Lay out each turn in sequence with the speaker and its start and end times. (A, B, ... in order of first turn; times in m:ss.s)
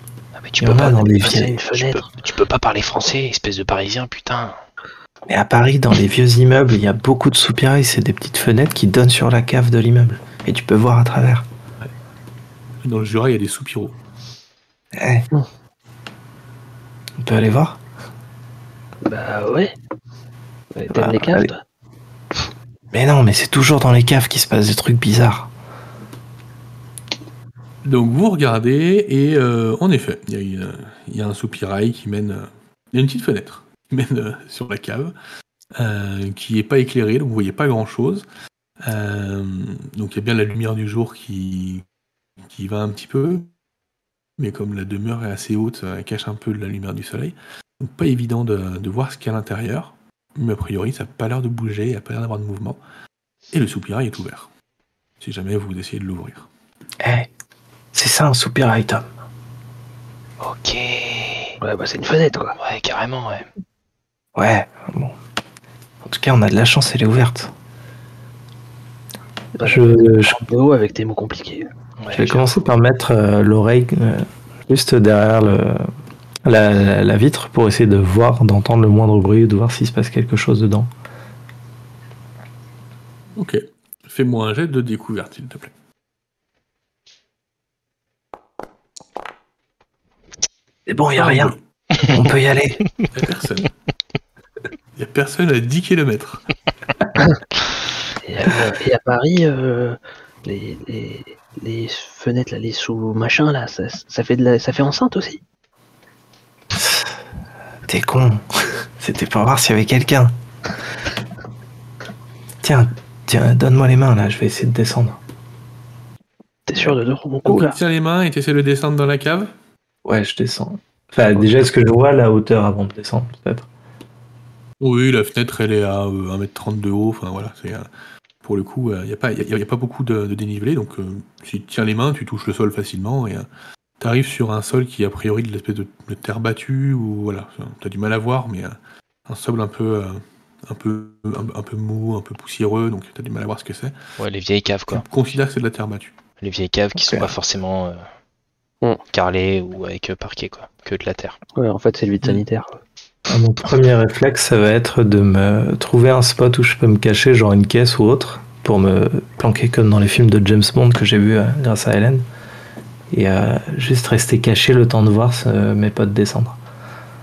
0:00.4-0:04.6 A
0:00.6-0:01.6 B
0:00.8-0:02.1 C
0:05.3-0:11.4 B
0:12.8-0:14.0 D
0:14.9-0:15.3 B
0:17.2-0:17.8 B
0:19.0-0:19.7 C
0:20.7-0:21.6 C
0:20.9-0:21.5 B
0:22.9-0:25.5 B
0:27.8-0:35.1 D
0:35.7-0:38.2 D
0:38.8-0:41.8 D
0:42.5-0:43.5 D
0:44.4-0:52.8 D
0:53.5-0:54.5 D
0:55.2-0:56.5 D
0:57.0-0:57.3 B
0:57.9-0:59.1 B
1:00.4-1:01.6 A
1:01.6-1:02.6 C
1:02.6-1:03.5 A
1:04.4-1:05.2 B
1:06.0-1:07.5 B
1:09.6-1:11.7 C
1:09.6-1:10.4 B
1:12.0-1:12.6 A
1:12.1-1:15.9 B
1:16.4-1:20.9 B
1:23.4-1:25.7 D
1:30.9-1:32.8 B
1:31.2-1:31.6 D
1:33.1-1:33.7 D
1:34.9-1:36.4 D
1:38.2-1:45.4 C
1:46.7-1:47.1 B
1:47.9-1:50.3 B
1:52.6-1:55.2 B
1:56.7-1:57.8 C
1:57.4-1:59.5 D
2:00.0-2:03.7 B
2:04.8-2:07.9 D
2:08.4-2:13.5 D
2:14.0-2:24.0 D
2:24.2-2:25.0 A
2:24.9-2:26.1 D
2:26.4-2:28.1 A
2:27.0-2:27.3 B
2:29.1-2:31.4 A
2:31.5-2:32.8 C
2:33.3-2:42.2 B
2:43.1-2:46.6 B